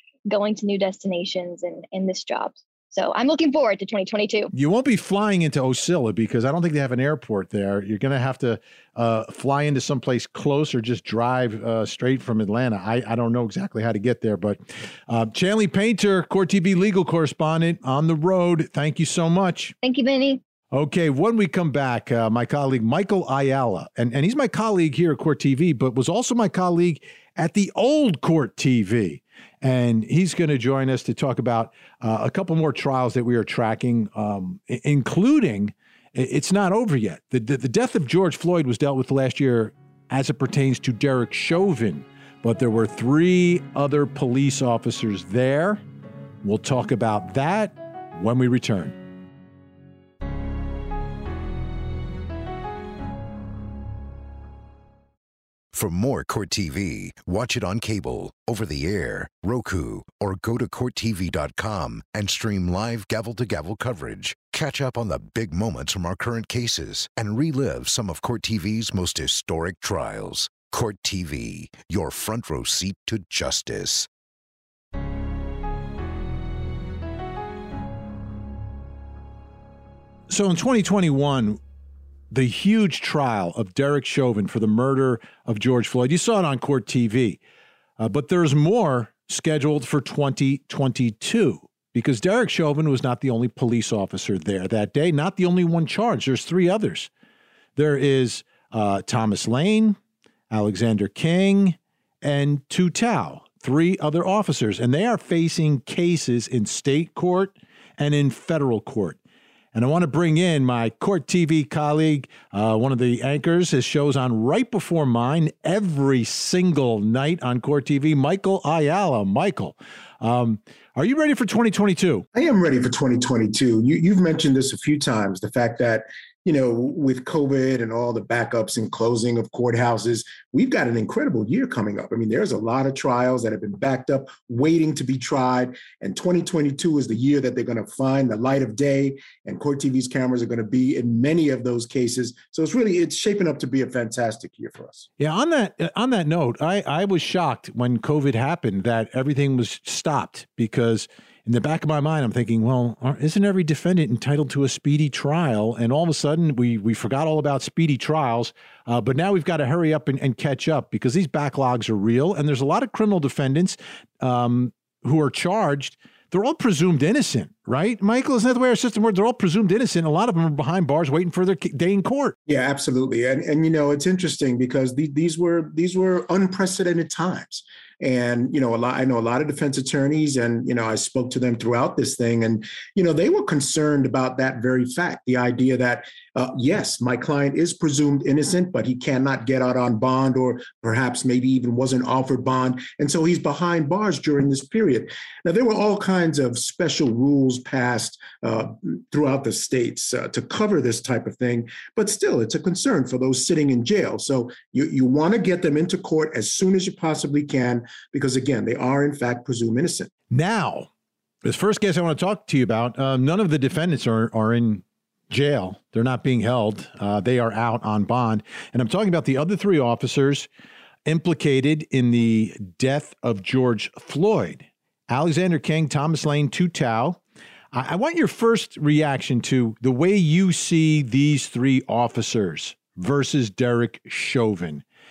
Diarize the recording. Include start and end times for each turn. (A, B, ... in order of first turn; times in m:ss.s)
0:00.3-0:04.5 A
0:04.5-0:19.8 B
0:19.8-0:20.4 A
0:20.7-0:45.8 B
0:46.4-0:49.0 B
0:55.7-1:14.1 C
1:20.3-1:21.6 B
1:22.3-1:27.4 B
1:28.0-1:37.1 B
1:37.8-1:40.0 B
1:40.5-1:49.2 B
1:49.7-2:02.3 B
2:02.4-2:25.1 D
2:25.2-2:52.4 B
2:52.5-3:30.1 D
3:30.3-3:30.9 B
3:31.4-3:40.5 B
3:41.1-3:47.2 B
3:47.7-3:54.8 B